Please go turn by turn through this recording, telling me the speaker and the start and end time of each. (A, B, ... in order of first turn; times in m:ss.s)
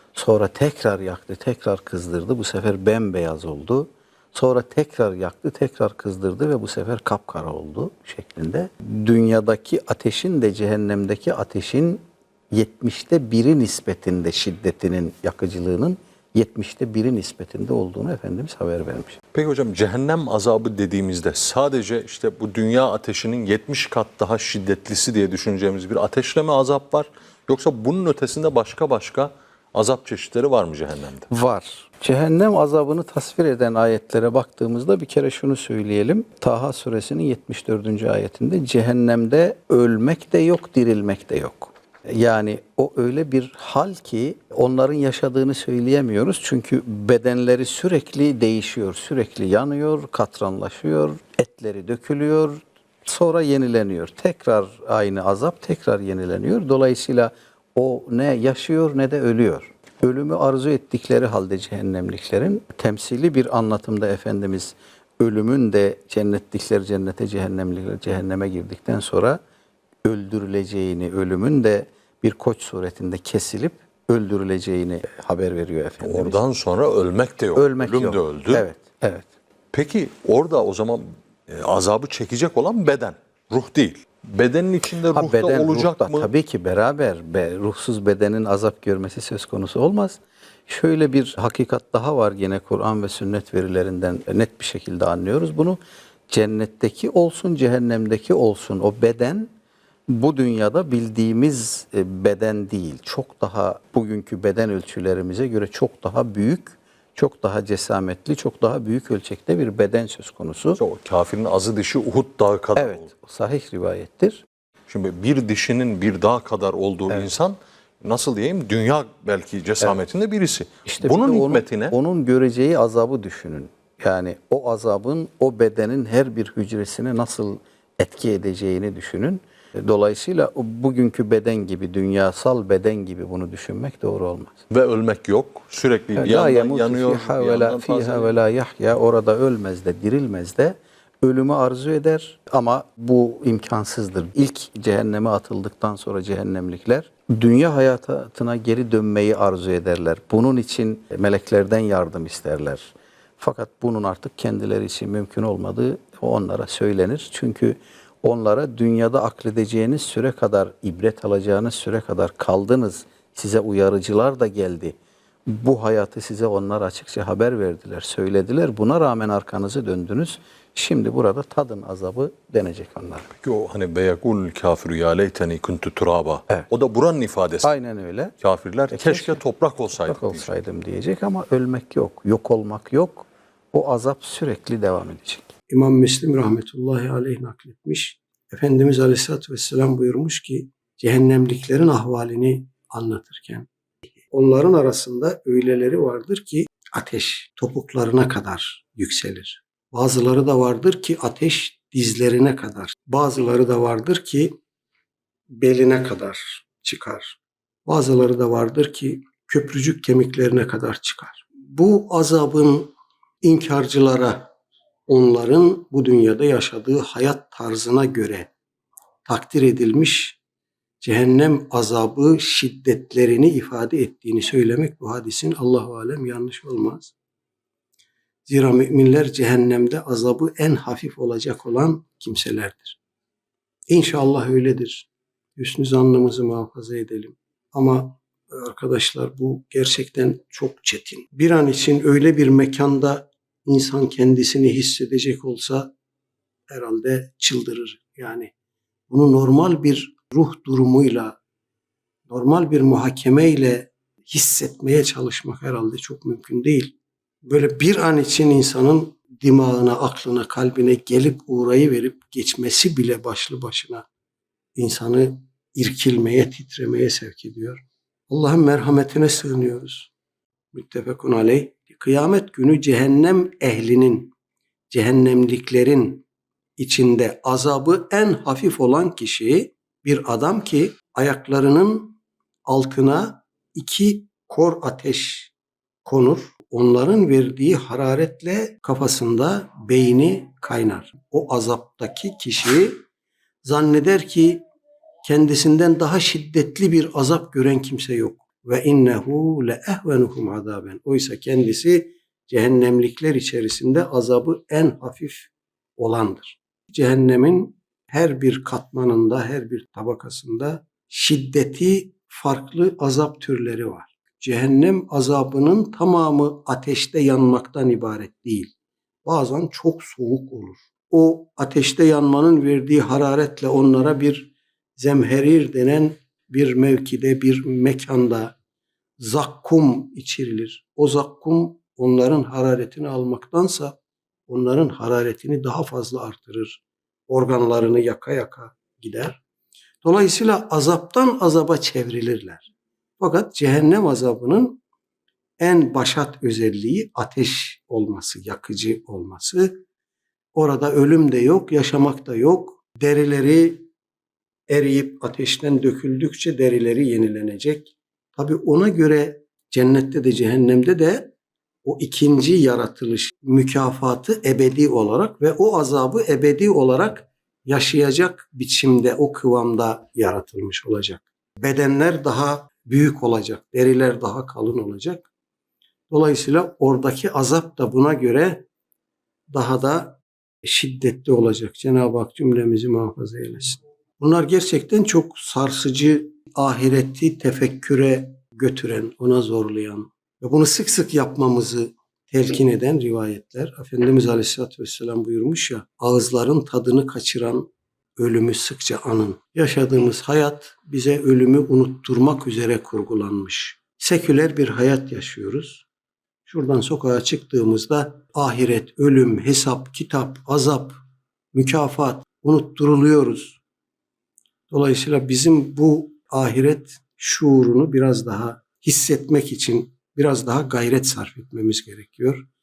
0:00.1-0:19.2 A
0:19.3-0:31.3 B
0:31.3-1:09.4 A
1:10.0-1:16.4 A
1:16.0-1:18.6 B
1:17.6-1:19.3 A
1:19.7-1:26.3 B
1:25.1-1:39.5 A
1:40.1-1:50.8 A
1:50.8-1:53.1 B
1:52.8-1:54.4 A
1:54.9-2:02.0 B
2:00.8-2:14.6 A
2:14.7-2:18.4 B
2:16.2-2:53.3 A
2:53.3-2:57.7 B
2:57.6-2:58.3 A
2:58.4-3:00.5 B
2:58.9-2:59.4 A
3:00.0-3:05.5 A
3:05.7-3:13.7 C
3:14.3-3:24.6 C
3:25.5-3:34.5 C
3:35.1-3:38.5 C
3:39.2-3:40.4 C
3:41.0-3:47.1 C
3:48.5-3:53.0 C
3:53.9-4:05.9 C
4:06.7-4:08.5 C
4:09.1-4:11.4 C
4:12.3-4:24.0 C
4:24.8-4:30.1 C
4:30.7-4:34.3 C
4:34.9-4:36.2 C
4:36.8-4:45.5 C
4:46.0-4:53.0 C
4:53.6-4:54.6 C
4:55.2-5:18.7 C
5:19.2-5:28.6 C
5:29.2-5:34.0 C
5:34.5-5:39.4 C
5:40.0-5:44.8 C
5:45.6-5:49.8 C
5:50.5-5:53.9 C
5:54.7-6:01.3 C
6:01.8-6:15.3 C
6:16.1-6:18.7 C
6:19.5-6:45.8 C
6:46.4-6:51.0 C
6:51.5-6:53.6 C
6:54.7-7:02.5 C